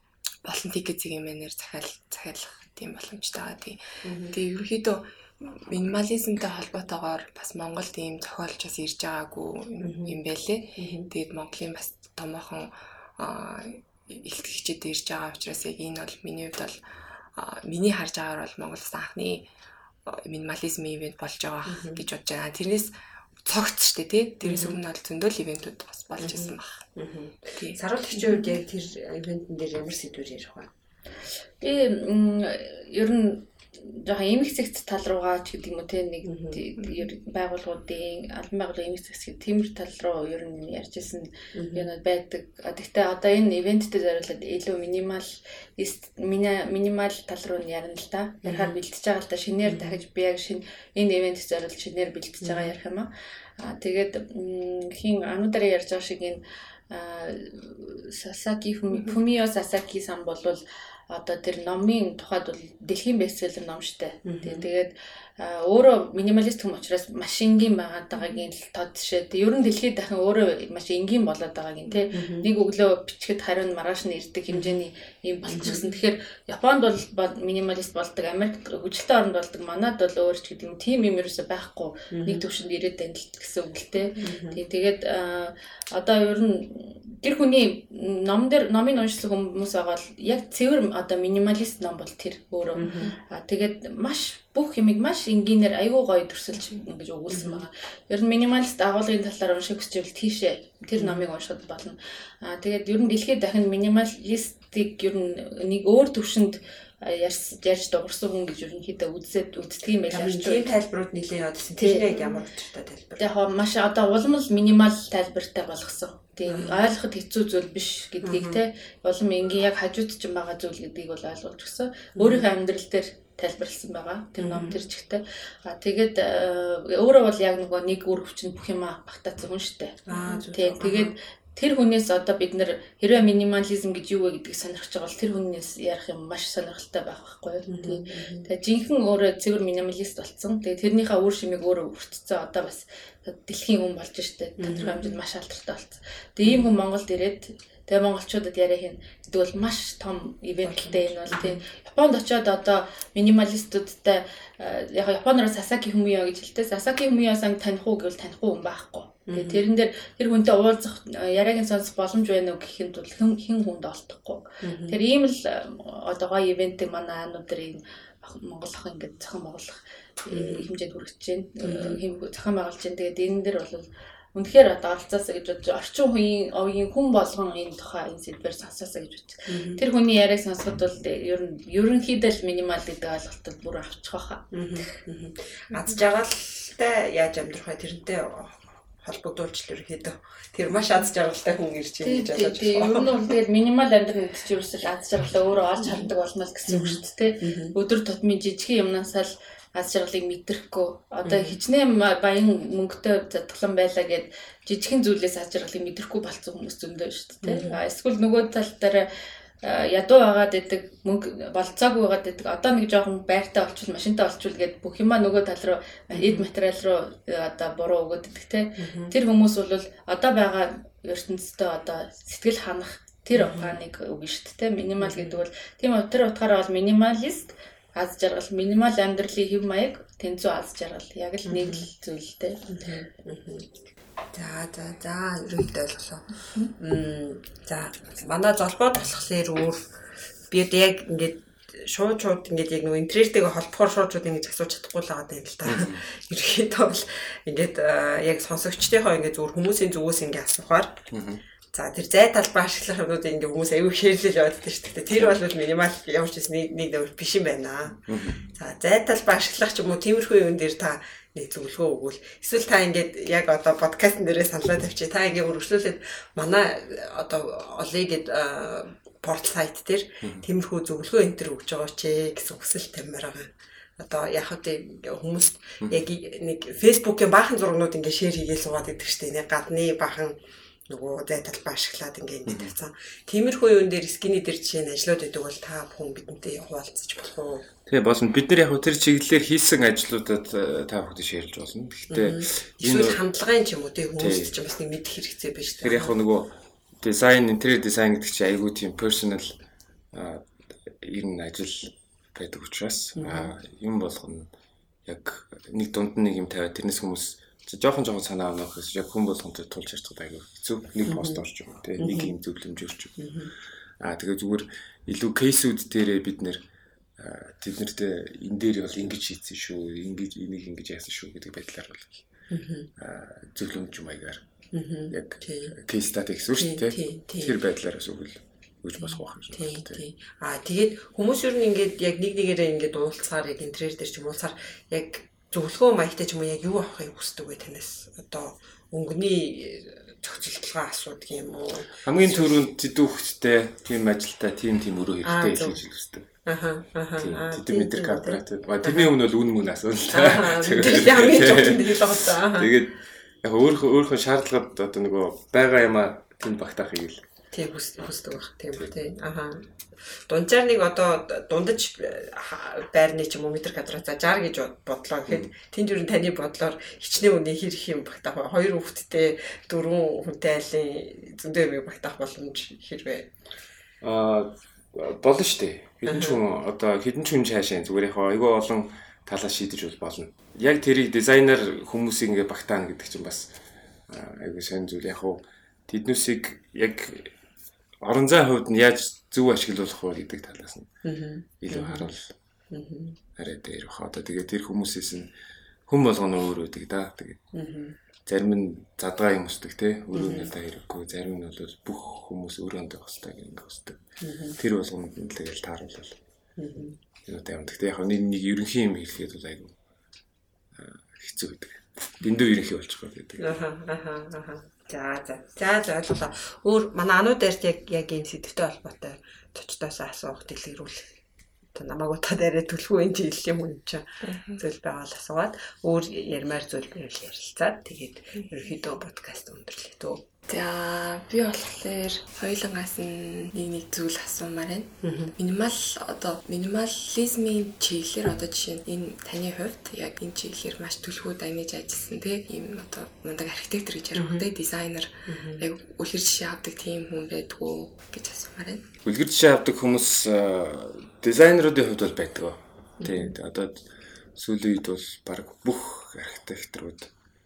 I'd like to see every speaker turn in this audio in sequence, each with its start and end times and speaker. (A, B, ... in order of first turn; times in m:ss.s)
0:00.4-0:16.8 A
0:04.0-0:04.4 B
0:09.8-0:10.2 B
0:10.8-0:11.1 B
0:17.4-0:19.5 A
0:20.1-0:22.9 A
0:21.7-0:22.0 B
0:23.4-0:26.9 A
0:24.4-0:24.8 B
0:26.2-0:30.7 B
0:27.6-0:28.5 A
0:31.6-1:50.7 C
0:36.3-0:36.6 B
0:41.6-0:41.9 B
0:48.4-0:48.8 B
0:49.6-0:50.0 B
0:52.4-0:52.8 B
0:58.9-0:59.2 B
1:04.2-1:04.7 B
1:12.1-1:12.5 B
1:14.5-1:14.8 B
1:15.5-1:15.8 B
1:22.1-1:22.4 B
1:24.2-1:24.6 B
1:32.8-1:33.1 B
1:37.3-1:37.6 B
1:41.0-1:41.3 B
1:50.1-1:53.3 B
1:51.8-1:52.4 C
1:53.2-3:04.5 C
1:56.5-1:56.8 B
1:58.2-1:58.6 B
2:02.2-2:02.5 B
2:04.4-2:04.8 B
2:10.1-2:11.1 B
2:17.7-2:18.5 B
2:24.6-2:25.2 B
2:26.4-2:26.7 B
2:30.6-2:31.6 B
2:39.3-2:39.6 B
2:44.6-2:45.0 B
2:50.3-2:50.7 B
2:51.6-2:52.0 B
2:59.5-2:59.8 B
3:04.5-3:13.3 B
3:12.0-3:29.1 C
3:16.7-3:17.8 B
3:21.2-3:21.6 B
3:27.4-3:27.8 B
3:29.6-3:52.7 C
3:36.1-3:36.5 B
3:38.8-3:39.1 B
3:43.4-3:43.8 B
3:45.0-3:45.4 B
3:51.5-3:51.8 B
3:52.7-3:53.7 B
3:54.3-3:59.9 B
4:00.5-4:11.1 B
4:05.6-4:06.0 D
4:11.1-4:11.4 D
4:11.7-4:47.6 B
4:18.1-4:18.4 D
4:42.5-4:42.7 D
4:47.9-4:53.2 D
4:52.1-4:56.1 B
4:54.2-4:54.5 D
4:55.8-4:59.6 D
5:00.1-5:04.5 D
5:03.2-5:03.5 B
5:05.1-5:13.3 D
5:11.1-5:11.4 B
5:12.0-5:12.3 B
5:13.2-5:13.5 B
5:14.0-5:16.6 D
5:17.2-5:22.3 D
5:22.5-5:22.9 B
5:23.0-5:24.4 D
5:24.7-5:25.8 B
5:25.1-5:30.0 D
5:26.6-5:27.6 B
5:29.0-5:42.6 B
5:42.0-5:46.3 D
5:45.2-5:45.8 B
5:46.4-5:49.1 B
5:47.2-5:57.2 D
5:50.1-5:52.7 B
5:57.5-6:13.3 B
6:14.0-6:23.6 D
6:16.1-6:16.4 B
6:24.1-6:27.3 D
6:28.0-6:30.9 D
6:31.0-6:32.1 B
6:31.6-6:32.3 D
6:32.7-6:33.2 B
6:33.4-6:35.3 D
6:35.9-6:37.4 D
6:37.5-6:38.0 B
6:38.3-6:44.0 D
6:40.1-6:40.5 B
6:44.2-6:44.6 B
6:44.6-6:46.2 D
6:46.6-6:47.0 B
6:47.2-6:49.7 D
6:50.7-6:53.6 D
6:53.4-7:01.1 B
7:01.7-7:10.2 B
7:10.5-7:28.9 A
7:15.0-7:15.3 B
7:24.1-7:24.5 B
7:25.3-7:25.6 B
7:29.0-7:37.1 D
7:33.0-7:33.3 B